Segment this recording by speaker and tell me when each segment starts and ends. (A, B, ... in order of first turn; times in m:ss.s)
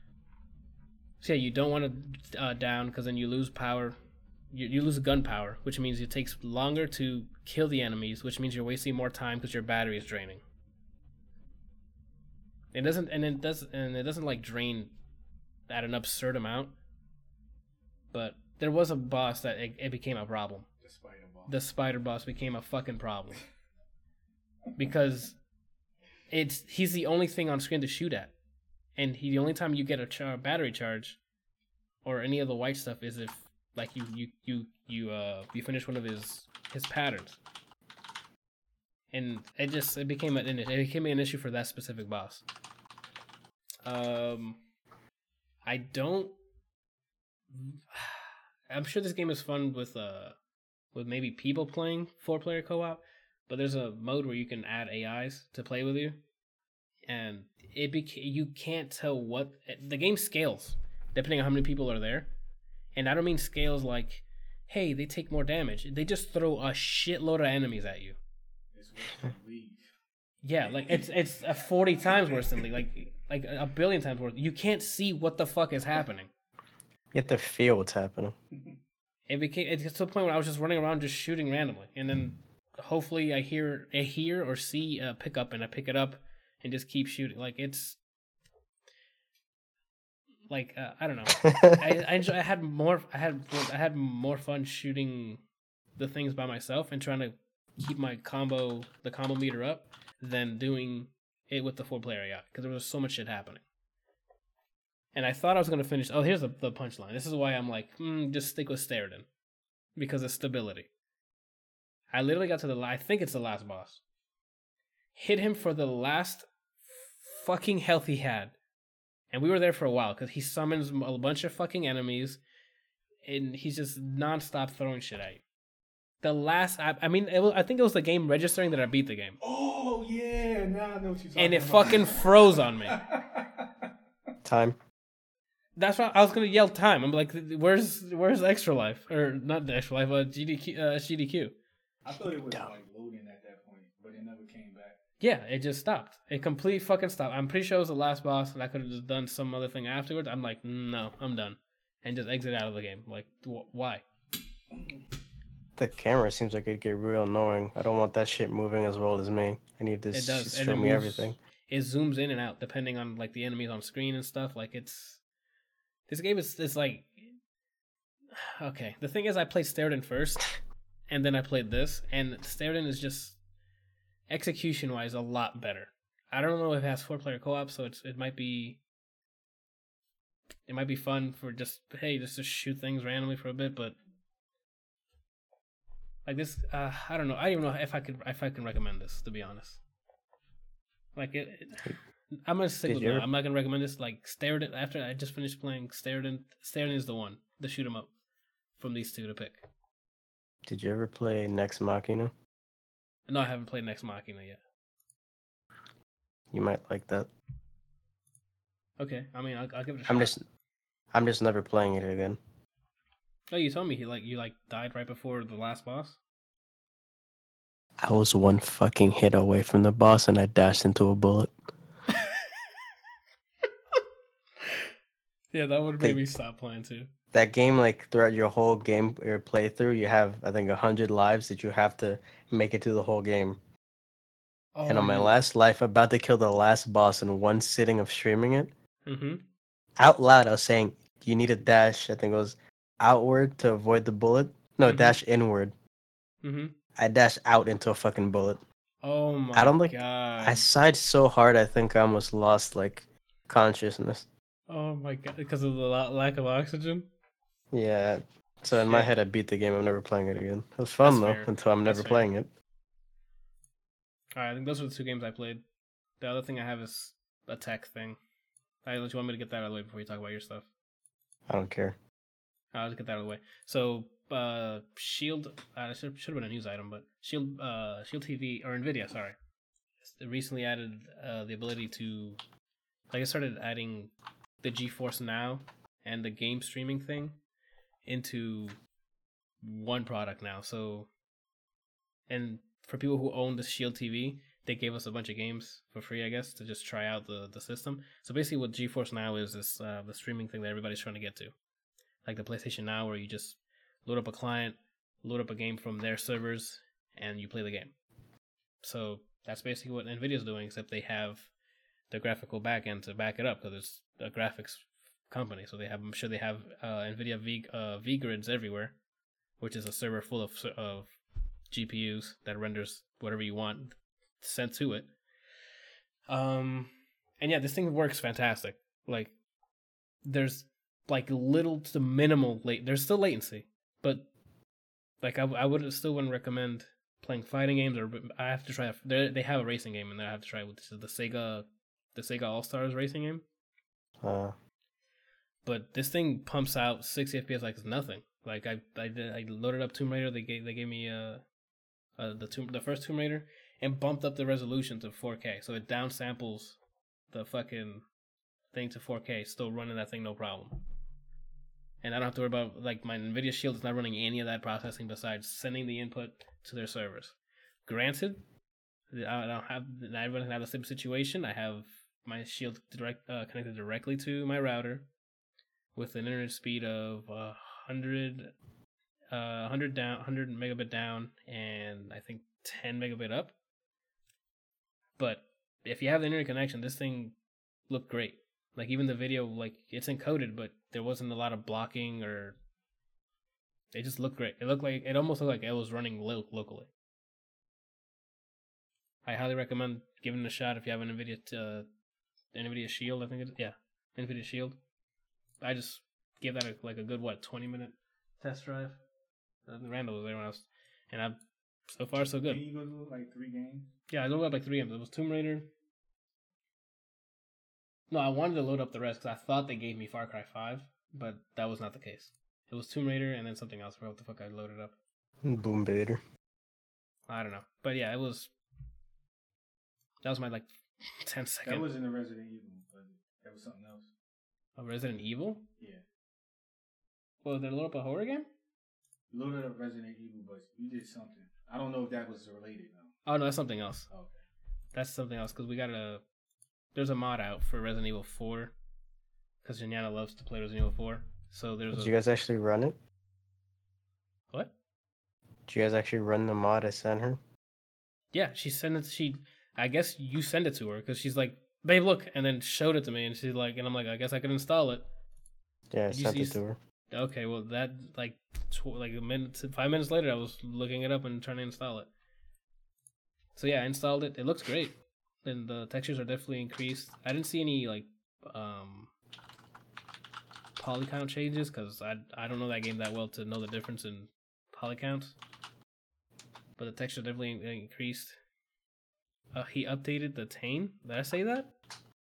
0:01.2-0:04.0 A
0:04.5-0:10.4 A
0:12.7-0:15.0 A
0:15.7-0:16.7 A
0:18.1-0:20.7 A
0:20.8-0:21.5 B
0:21.5-0:23.4 A
0:24.8-0:25.4 A
0:26.3-0:28.3 A
0:29.0-0:31.2 A
0:32.0-0:37.4 A
0:39.1-0:42.4 A
0:43.8-0:44.6 A
0:45.6-0:46.4 A
0:47.5-0:50.4 A
0:50.9-0:56.2 A
0:57.1-1:02.3 A
1:03.0-1:08.2 A
1:08.8-1:09.9 B
1:10.4-1:16.3 A
1:10.8-1:11.1 B
1:12.1-1:12.8 B
1:17.1-1:18.4 C
1:19.3-1:28.0 A
1:30.5-1:35.4 A
1:31.4-1:31.8 C
1:36.0-1:43.6 A
1:45.1-1:49.3 A
1:50.0-1:50.9 A
1:52.1-1:54.0 A
1:55.2-1:58.6 A
1:59.3-2:02.4 A
2:03.3-2:05.4 A
2:06.2-2:09.4 A
2:09.4-2:13.9 B
2:11.4-2:13.0 A
2:14.4-2:14.8 C
2:15.8-2:21.6 A
2:22.0-2:25.0 B
2:25.2-2:34.0 A
2:35.8-2:41.4 C
2:40.1-2:45.2 A
2:46.1-2:47.4 A
2:48.4-2:50.5 A
2:51.1-2:53.4 A
2:54.3-2:58.8 A
3:00.7-3:04.0 A
3:06.2-3:09.8 A
3:11.2-3:18.1 A
3:12.8-3:13.3 C
3:18.8-3:19.7 A
3:20.6-3:22.3 C
3:23.3-3:24.6 A
3:26.5-3:27.3 C
3:29.0-3:30.4 A
3:30.1-3:30.4 C
3:31.1-3:32.4 C
3:33.5-3:36.2 A
3:38.0-3:41.5 C
3:45.5-3:47.1 A
3:47.3-3:53.6 C
3:54.8-3:55.3 A
3:54.9-3:58.7 C
3:59.0-3:59.4 A
4:00.0-4:05.7 C
4:04.9-4:05.2 A
4:06.4-4:06.8 A
4:07.0-4:08.6 C
4:09.0-4:10.6 A
4:09.5-4:14.3 C
4:14.7-4:17.1 A
4:17.7-4:22.5 C
4:18.7-4:19.1 A
4:21.0-4:22.3 A
4:24.4-4:25.6 A
4:26.2-4:28.2 A
4:28.8-4:30.7 A
4:31.5-4:32.0 C
4:32.7-4:39.4 A
4:40.0-4:42.4 A
4:43.1-4:47.4 A
4:48.1-4:48.8 A
4:49.6-4:51.1 A
4:52.3-5:01.6 A
5:02.2-5:08.0 A
5:08.8-5:11.5 A
5:12.1-5:19.0 A
5:19.6-5:21.1 A
5:21.7-5:25.1 A
5:26.3-5:29.3 A
5:30.2-5:34.3 A
5:35.2-5:43.4 A
5:44.2-5:44.6 C
5:45.6-5:51.4 A
5:52.2-5:56.8 A
5:57.3-5:58.0 A
5:58.7-6:00.8 A
6:02.0-6:08.4 A
6:09.1-6:15.1 A
6:16.0-6:18.5 A
6:19.3-6:23.6 A
6:25.2-6:27.4 A
6:27.9-6:32.6 A
6:33.9-6:36.9 A
6:39.3-6:41.9 A
6:42.5-6:44.8 A
6:45.6-6:49.0 A
6:49.7-6:51.4 A
6:51.9-6:52.6 A
6:52.5-6:53.9 B
6:54.1-6:55.7 A
6:58.1-7:05.0 A
7:05.4-7:06.2 C
7:07.3-7:08.5 A
7:10.2-7:10.7 A
7:11.2-7:11.9 A
7:11.6-7:14.1 B
7:14.8-7:15.7 A
7:17.4-7:18.5 A
7:19.3-7:23.2 B
7:23.3-7:24.1 A
7:24.1-7:24.4 B
7:24.9-7:26.2 A
7:26.9-7:28.8 A
7:29.6-7:32.1 A
7:31.9-7:33.0 C
7:35.7-7:37.4 C
7:38.3-7:45.1 A
7:45.9-7:46.8 C
7:46.1-7:46.6 A
7:47.1-7:52.1 A
7:53.6-7:59.1 A
8:00.8-8:05.4 A
8:06.8-8:08.4 A
8:09.5-8:11.7 A